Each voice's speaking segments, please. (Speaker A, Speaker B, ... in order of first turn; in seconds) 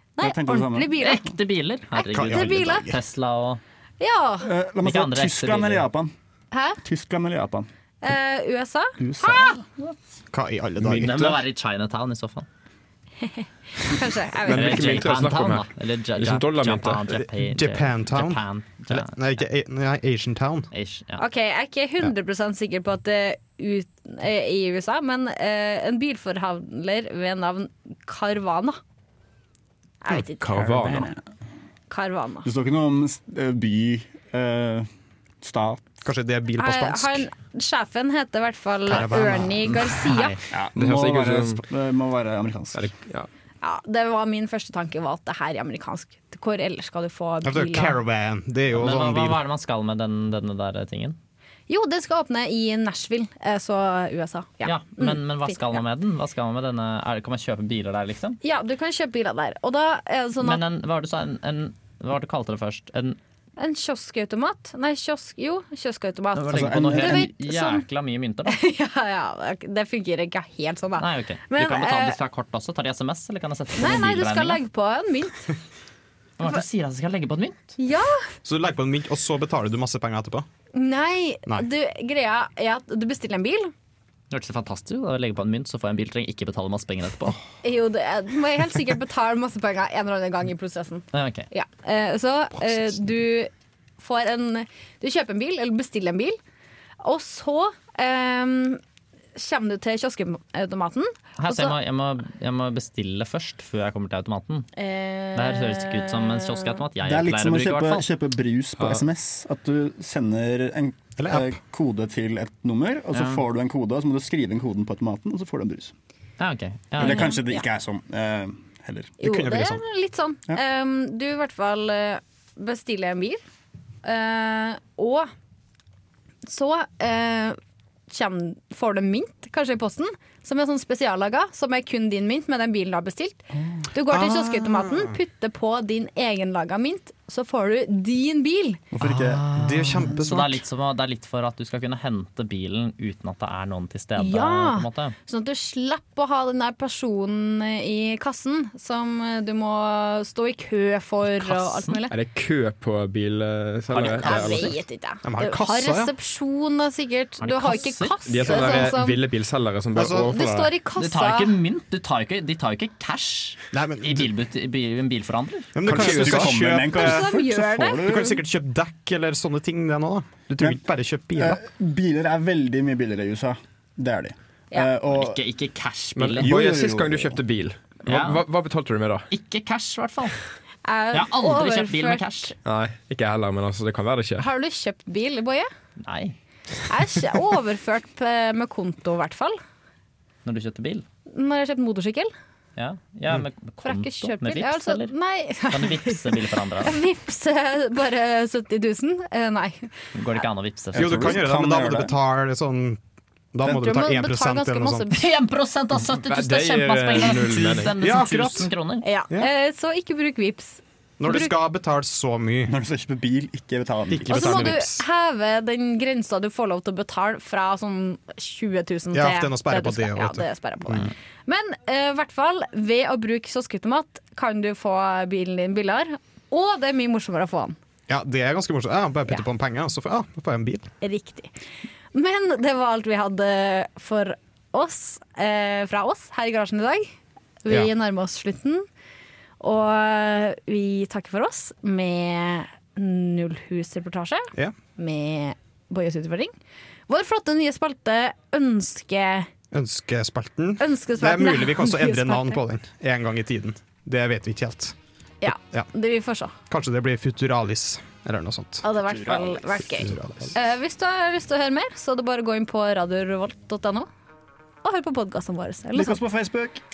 Speaker A: 0.2-1.3, 1.9-2.9, 4.0-4.5, 6.5-6.8, 8.0-9.6, 13.2-15.0, 21.2-28.8, 30.0-30.5, 31.9-32.5, 36.6-40.4, 43.6-48.0, 51.7-55.8, 58.4-60.6, 63.6-67.9, 68.5-72.2, 73.8-75.5, 77.8-78.2, 80.7-83.7, 87.6-96.4, 97.0-98.8, 99.3-101.8, 104.8-106.9, 117.0-117.6, 119.2-123.4, 124.0-125.3, 126.5-127.6, 128.1-138.8, 144.2-152.1, 154.1-159.2, 160.3-161.6, 166.9-168.0, 180.8-182.5, 184.4-185.7, 186.9-189.6, 191.3-192.3, 193.8-199.9, 203.6-205.3, 209.0-211.6, 214.3-227.8, 231.0-231.5, 232.1-237.1, 237.6-238.8, 239.6-246.5, 247.1-249.5, 250.8-252.6, 255.4-256.6, 258.8-264.1, 264.8-266.2
Speaker B: 0.2-1.1, 4.4-6.1, 6.8-7.7, 9.0-9.7, 30.6-31.1, 32.4-34.9, 35.4-35.9, 40.5-42.9, 66.5-67.3, 107.0-115.9, 117.0-119.1, 133.5-133.8, 138.9-139.4, 166.0-168.4, 171.3-175.4, 176.3-177.4, 200.9-202.1, 212.7-214.8, 258.9-259.6, 265.9-266.8
Speaker C: 1.0-3.6, 4.8-5.9, 10.8-12.4, 14.5-19.4, 20.7-21.2, 39.8-40.3, 48.7-51.1, 54.6-58.4, 60.4-63.2, 66.3-68.6, 71.0-74.6, 76.4-77.7, 84.3-87.3, 91.1-91.5, 101.4-104.7, 105.3-108.0, 113.1-113.4, 116.4-117.3, 139.0-145.2, 151.2-152.0, 153.9-154.8, 157.4-158.5, 160.9-165.7, 175.1-176.5, 178.1-178.4, 179.3-180.3, 181.1-182.5, 186.0-186.3, 190.4-191.1, 192.8-195.1, 195.7-196.9, 200.2-201.4, 205.1-209.0
Speaker D: 2.1-3.0, 10.3-11.4, 17.1-20.7, 36.0-37.3, 38.9-39.9, 47.4-49.4, 78.4-80.5, 111.2-111.6, 119.2-119.8, 134.1-135.1, 139.5-140.6, 155.2-156.1, 159.9-160.4, 163.7-164.3, 165.7-167.4, 168.0-171.6, 200.9-203.0, 203.5-205.2, 207.9-208.7, 211.2-212.8, 214.1-215.0, 219.1-221.1, 228.1-230.9, 249.7-254.9, 255.5-255.9, 256.7-258.9, 259.8-260.5
Speaker E: 14.4-17.2, 30.1-31.1, 40.7-41.6, 42.7-43.3, 108.8-109.0, 152.1-154.7, 158.2-160.7, 165.8-166.7, 176.1-179.3, 182.6-184.5, 206.1-208.0